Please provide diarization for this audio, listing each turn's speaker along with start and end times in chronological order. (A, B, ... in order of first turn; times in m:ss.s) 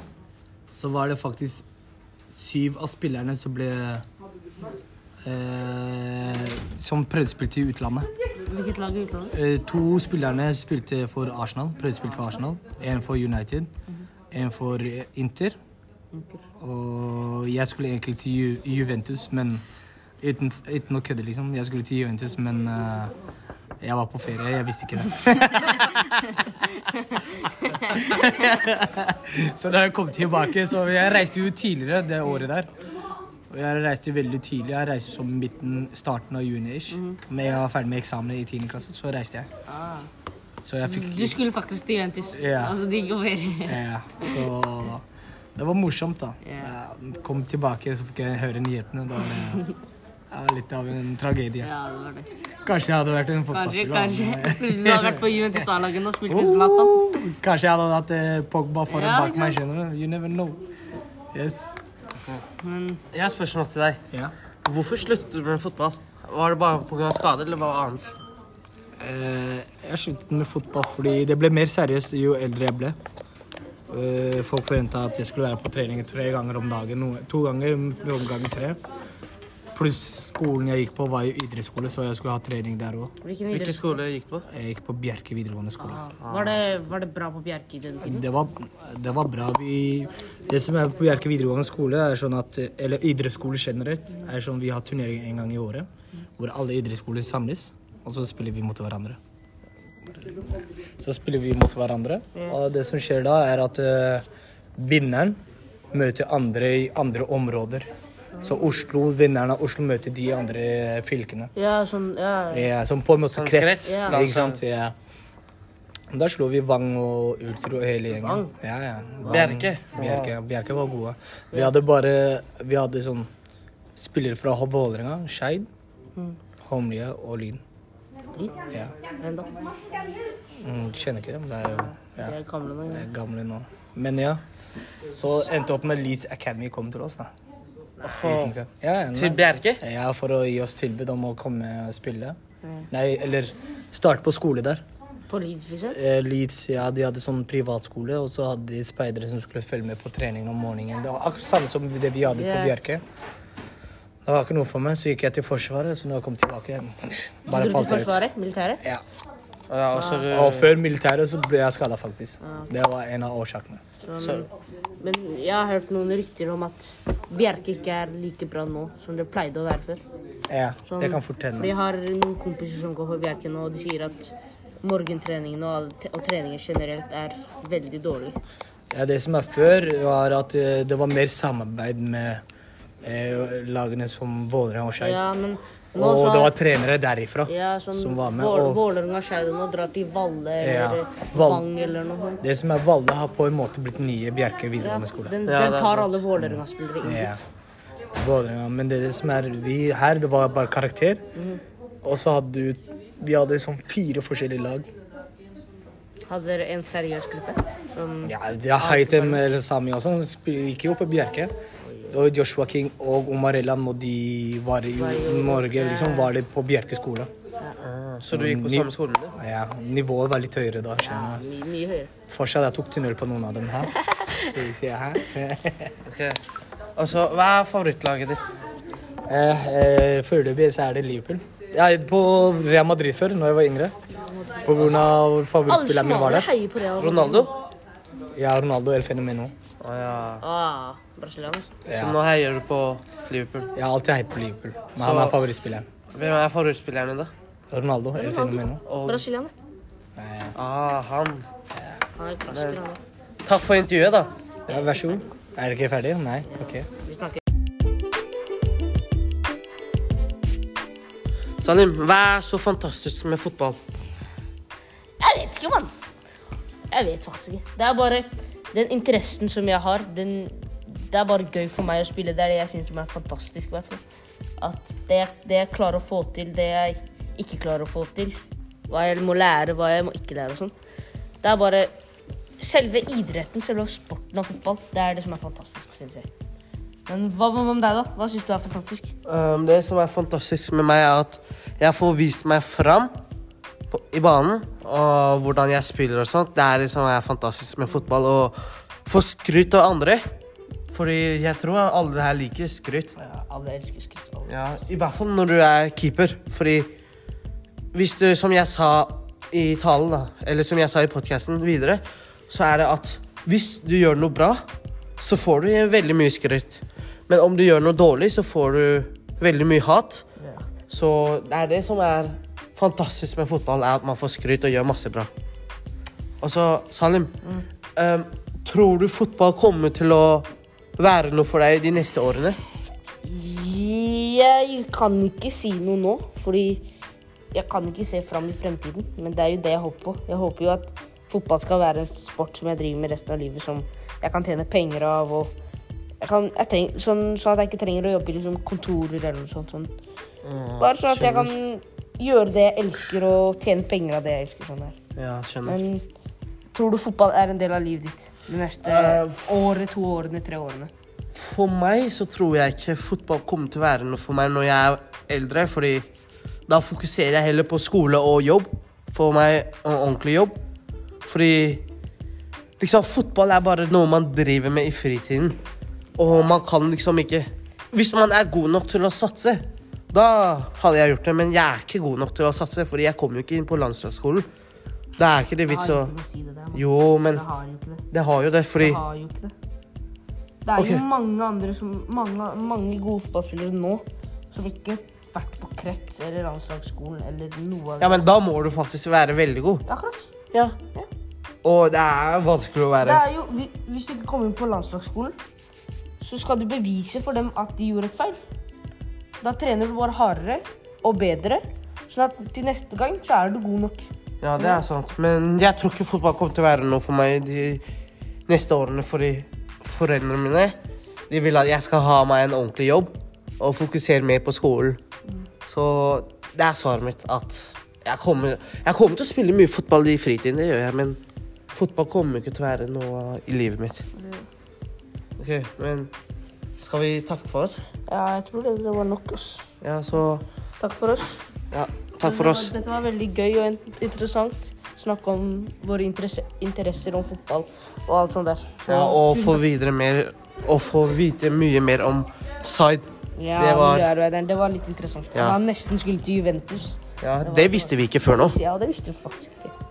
0:00.7-0:01.6 A
0:02.3-0:04.0 A
0:05.2-0:08.1 A
0:08.5-0:09.4 B
0:09.3-0:13.7 A
0:14.3-0:15.6 A
0:16.1-0:16.4 B
0:16.6-0:19.6 A
0:20.2-0:23.1 A
0:23.8-0:26.6 A
0:27.7-0:32.7 A
0:33.5-0:39.5 A
0:36.9-0:37.2 B
0:39.7-0:40.1 B
0:40.6-0:41.4 A
0:40.9-0:44.4 B
0:42.3-0:42.8 A
0:43.6-0:45.0 A
0:45.6-0:49.7 A
0:46.4-0:46.7 B
0:50.3-0:51.7 A
0:51.6-0:52.3 B
0:52.6-0:55.6 A
0:53.5-0:57.3 B
0:56.3-1:00.6 A
0:58.9-0:59.6 B
1:01.3-1:01.8 A
1:02.6-1:03.0 B
1:03.1-1:04.0 C
1:04.6-1:08.2 C
1:09.0-1:13.0 A
1:13.9-1:18.8 A
1:19.7-1:23.1 A
1:23.2-1:24.0 B
1:23.5-1:24.5 C
1:24.5-1:26.1 A
1:25.8-1:28.3 B
1:26.2-1:26.6 C
1:28.0-1:39.2 A
1:41.0-1:44.2 A
1:44.8-1:45.4 A
1:45.9-1:47.9 A
1:48.4-1:51.5 A
1:51.6-1:52.7 B
1:52.5-1:55.0 A
1:53.3-1:54.6 C
1:53.8-1:54.2 B
1:56.1-2:03.3 A
1:58.1-1:58.5 B
1:59.2-2:00.4 C
2:04.0-2:05.7 A
2:06.6-2:07.6 A
2:08.3-2:09.5 B
2:10.6-2:12.4 A
2:11.7-2:13.1 B
2:12.9-2:14.4 A
2:15.1-2:17.3 A
2:18.0-2:22.4 A
2:18.0-2:18.5 C
2:19.2-2:19.8 C
2:22.6-2:22.9 B
2:22.9-2:24.8 A
2:25.3-2:26.0 B
2:25.9-2:33.0 A
2:32.3-2:32.8 B
2:34.2-2:38.2 A
2:37.5-2:38.8 B
2:39.7-2:40.8 C
2:39.9-2:40.3 B
2:40.3-2:43.8 A
2:42.4-2:42.7 B
2:44.0-2:50.0 B
2:50.5-2:51.7 A
2:50.9-2:58.4 B
2:58.9-3:02.4 A
3:03.0-3:05.2 A
3:05.0-3:06.5 B
3:06.0-3:08.8 A
3:07.5-3:12.4 B
3:10.6-3:11.7 A
3:12.4-3:15.3 A
3:14.8-3:17.4 B
3:15.5-3:16.2 C
3:16.4-3:17.4 A
3:18.2-3:21.2 A
3:21.4-3:21.6 B
3:22.0-3:24.9 A
3:26.3-3:29.4 B
3:28.2-3:31.5 A
3:32.1-3:37.3 A
3:35.0-3:36.4 B
3:37.8-3:39.4 C
3:38.3-3:41.4 A
3:41.0-3:42.1 B
3:42.3-3:45.9 A
3:46.1-3:46.4 C
3:47.0-3:48.4 C
3:49.3-3:53.9 A
3:54.6-3:56.5 A
3:55.7-3:57.5 B
3:57.0-3:57.5 C
3:58.4-3:59.5 A
3:59.8-4:00.4 C
4:00.4-4:01.7 B
4:01.8-4:02.2 A
4:02.0-4:03.7 C
4:03.8-4:05.9 A
4:05.0-4:05.4 C
4:06.2-4:07.3 C
4:07.7-4:08.8 A
4:08.2-4:09.5 B
4:08.9-4:09.2 C
4:10.2-4:10.6 A
4:10.6-4:11.5 C
4:12.2-4:13.0 B
4:12.5-4:12.8 C
4:13.5-4:14.3 C
4:14.7-4:15.2 B
4:14.7-4:16.9 A
4:16.5-4:17.4 B
4:21.6-4:23.8 C
4:25.2-4:25.9 B
4:26.9-4:34.0 B
4:34.6-4:40.8 B
4:41.4-4:41.9 B
4:42.6-4:46.3 B
4:47.1-4:49.1 B
4:49.3-4:53.1 C
4:53.9-5:00.2 C
5:00.9-5:03.1 C
5:03.2-5:04.8 B
5:04.5-5:06.9 C
5:07.9-5:14.6 C
5:15.2-5:20.2 C
5:20.4-5:20.6 B
5:20.9-5:25.3 C
5:26.4-5:27.3 C
5:28.0-5:32.6 C
5:33.2-5:36.8 B
5:37.5-5:45.5 B
5:46.2-5:49.9 B
5:50.4-5:51.5 C
5:50.8-5:55.0 B
5:55.2-5:55.8 C
5:55.6-5:56.1 B
5:56.7-6:00.9 B
5:58.8-5:59.4 C
6:01.4-6:06.1 C
6:06.7-6:10.6 C
6:11.2-6:11.8 C
6:12.8-6:15.6 C
6:16.2-6:24.5 C
6:25.2-6:26.1 C
6:25.7-6:28.0 B
6:26.8-6:27.4 C
6:28.1-6:29.0 C
6:28.8-6:29.5 B
6:30.6-6:38.2 B
6:30.8-6:31.0 C
6:38.0-6:39.8 C
6:39.9-6:40.3 B
6:41.6-6:43.3 C
6:43.0-6:45.4 B
6:46.2-6:48.4 B
6:49.4-6:54.1 B
6:54.4-6:57.8 C
6:58.5-7:00.8 C
7:01.3-7:05.0 C
7:05.7-7:11.2 C
7:11.7-7:14.0 C
7:14.2-7:14.5 B
7:15.4-7:16.1 C
7:16.8-7:17.8 C
7:18.1-7:19.7 B
7:19.8-7:20.4 C
7:20.8-7:21.4 B
7:21.7-7:22.7 C
7:22.2-7:29.6 B
7:28.9-7:34.1 C
7:33.4-7:39.7 B
7:37.2-7:38.6 C